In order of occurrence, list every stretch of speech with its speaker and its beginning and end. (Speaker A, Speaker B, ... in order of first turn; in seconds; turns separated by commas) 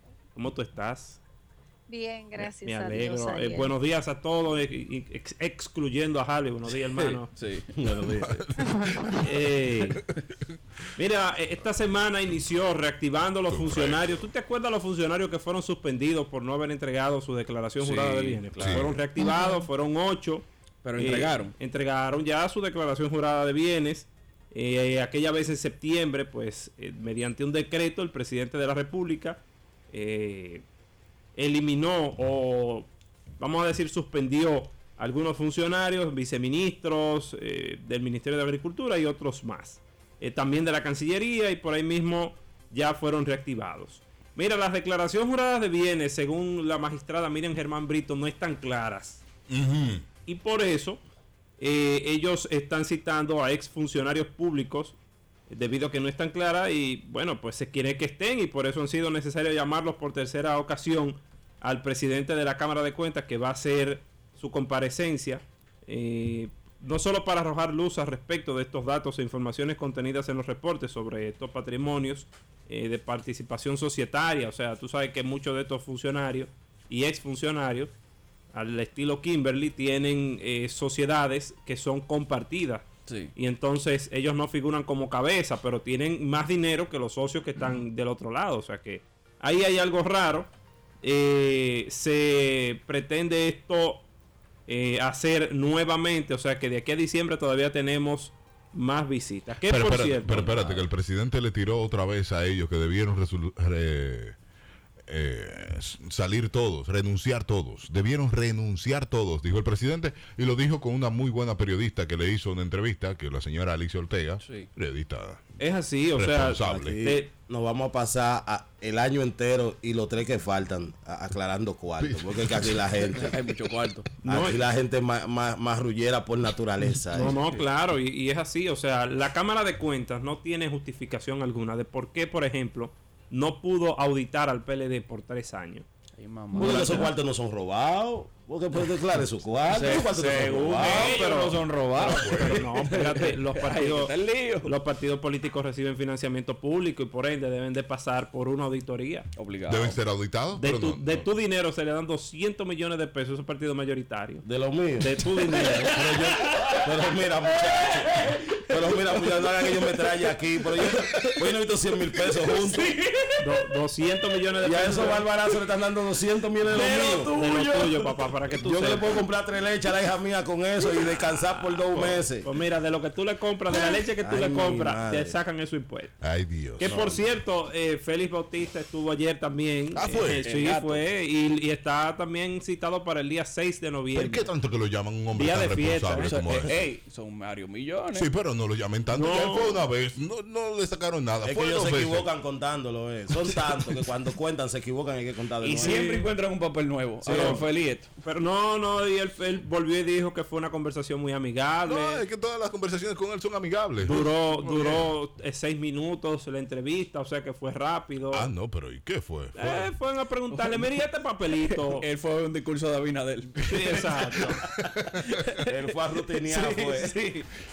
Speaker A: 0.3-1.2, Speaker B: 1.9-3.7, Speaker A: 2.4-7.3, Speaker C: 7.0-7.7, Speaker D: 7.7-8.4, Speaker E: 8.3-9.2, Speaker B: 8.6-9.2, Speaker A: 9.2-10.0, Speaker A: 11.0-30.6, Speaker E: 13.5-14.3, Speaker C: 17.8-18.9, Speaker E: 18.6-19.0, Speaker B: 19.2-19.7, Speaker C: 20.8-21.5, Speaker A: 31.4-32.9, Speaker A: 33.4-49.2, Speaker E: 49.5-50.1, Speaker A: 50.3-51.0, Speaker A: 51.6-55.0, Speaker A: 55.5-77.9, Speaker A: 78.5-90.5, Speaker C: 83.1-83.3, Speaker A: 91.0-94.0, Speaker A: 94.7-100.8, Speaker E: 99.7-104.4, Speaker E: 105.1-115.5, Speaker C: 114.4-114.7, Speaker A: 115.6-117.3, Speaker E: 116.2-117.0, Speaker D: 116.6-123.4, Speaker E: 122.0-122.9, Speaker C: 123.2-124.1, Speaker A: 124.2-124.6, Speaker D: 124.2-127.4, Speaker A: 127.1-135.9, Speaker C: 136.2-137.1, Speaker D: 136.5-141.2, Speaker A: 136.6-136.9, Speaker C: 139.7-144.7, Speaker A: 140.7-149.3, Speaker E: 142.0-142.6, Speaker C: 149.4-150.0, Speaker E: 149.7-151.3, Speaker A: 150.6-154.5, Speaker D: 154.4-163.0, Speaker A: 155.0-156.0, Speaker C: 155.5-161.4, Speaker C: 162.4-163.7, Speaker A: 163.4-165.2, Speaker D: 164.6-167.3, Speaker C: 166.6-168.3, Speaker A: 167.3-169.2, Speaker D: 168.6-172.5, Speaker A: 172.4-176.2, Speaker D: 173.7-175.4, Speaker E: 176.2-177.0, Speaker A: 176.8-184.5, Speaker D: 176.8-177.3, Speaker E: 179.9-180.5, Speaker C: 180.2-181.0, Speaker E: 184.2-186.9, Speaker A: 185.3-186.7, Speaker C: 186.2-188.3, Speaker E: 188.1-192.3, Speaker A: 189.1-189.9, Speaker D: 191.4-196.3, Speaker C: 195.6-198.1, Speaker A: 195.8-196.2, Speaker D: 197.2-197.7, Speaker A: 197.3-197.7, Speaker A: 198.2-202.2, Speaker E: 201.8-204.3, Speaker A: 204.0-208.5, Speaker C: 204.7-205.1, Speaker E: 208.3-209.9, Speaker A: 209.6-212.1, Speaker C: 210.5-211.0, Speaker C: 211.6-217.5, Speaker A: 213.7-214.7, Speaker E: 215.0-215.3, Speaker D: 215.6-217.3